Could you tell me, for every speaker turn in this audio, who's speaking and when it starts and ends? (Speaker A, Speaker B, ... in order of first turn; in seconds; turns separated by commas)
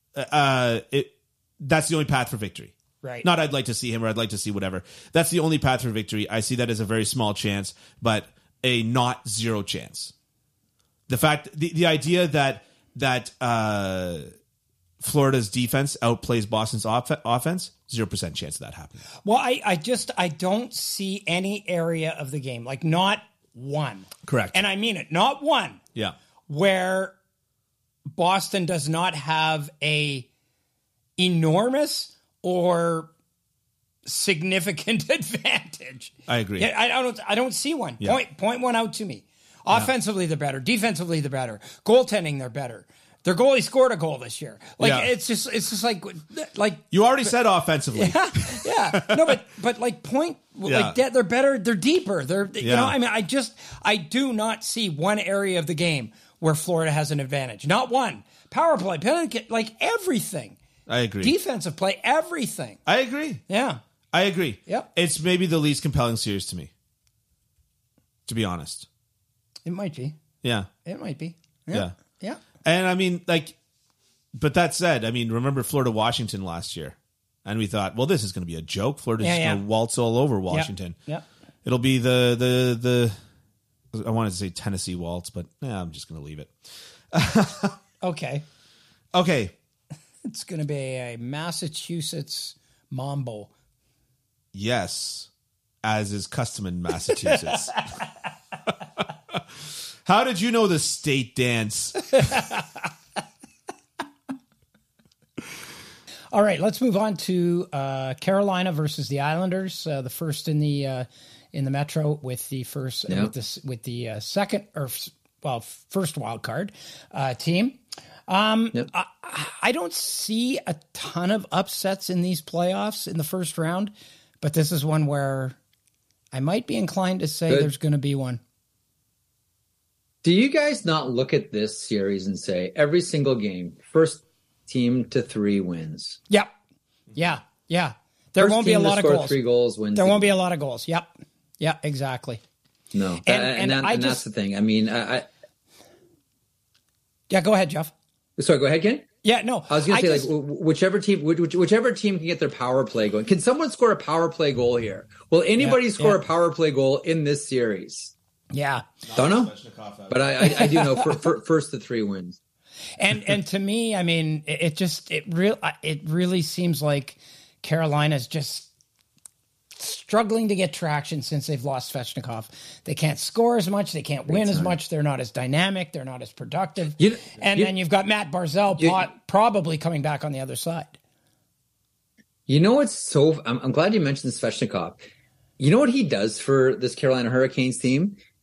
Speaker A: 0.1-10.1, Speaker B: 3.0-3.3, Speaker A: 11.1-14.3, Speaker A: 15.0-19.0, Speaker B: 19.2-25.8, Speaker A: 24.2-24.6, Speaker B: 26.5-27.1, Speaker B: 28.1-30.3, Speaker B: 31.2-33.1, Speaker B: 34.0-47.3, Speaker A: 36.3-36.7, Speaker A: 44.8-45.1, Speaker A: 46.9-49.4, Speaker B: 47.9-60.6, Speaker A: 50.6-51.0, Speaker A: 52.6-53.0, Speaker A: 60.9-61.3, Speaker B: 61.2-62.8, Speaker A: 62.9-63.4, Speaker B: 63.5-63.8, Speaker A: 64.1-66.7, Speaker A: 68.3-68.9, Speaker B: 69.7-70.2, Speaker A: 70.4-70.7, Speaker B: 70.8-72.4, Speaker A: 72.6-73.6, Speaker A: 74.3-81.0, Speaker B: 79.2-79.6, Speaker B: 80.5-81.2, Speaker A: 81.7-83.2, Speaker A: 83.9-86.6, Speaker A: 87.1-87.8, Speaker B: 88.0-88.4, Speaker A: 89.1-89.5, Speaker B: 90.2-93.5, Speaker A: 94.5-95.3, Speaker A: 95.8-97.8, Speaker B: 97.2-98.1, Speaker A: 99.3-102.5, Speaker B: 102.2-102.6, Speaker B: 106.3-125.6, Speaker B: 126.3-128.4, Speaker C: 130.2-136.2, Speaker B: 137.2-139.4, Speaker C: 138.4-140.2, Speaker B: 139.9-142.4, Speaker C: 142.9-145.3, Speaker B: 143.2-144.2, Speaker B: 147.3-147.9, Speaker C: 148.4-149.1, Speaker B: 149.2-150.3, Speaker C: 149.7-158.1, Speaker B: 155.6-156.2, Speaker B: 158.5-158.9, Speaker A: 159.1-160.3, Speaker C: 159.2-159.5, Speaker C: 160.1-162.4, Speaker B: 160.4-161.2, Speaker B: 163.0-168.7, Speaker B: 169.8-181.0, Speaker C: 174.3-174.8, Speaker C: 177.0-177.7, Speaker C: 182.5-185.0, Speaker C: 185.6-188.2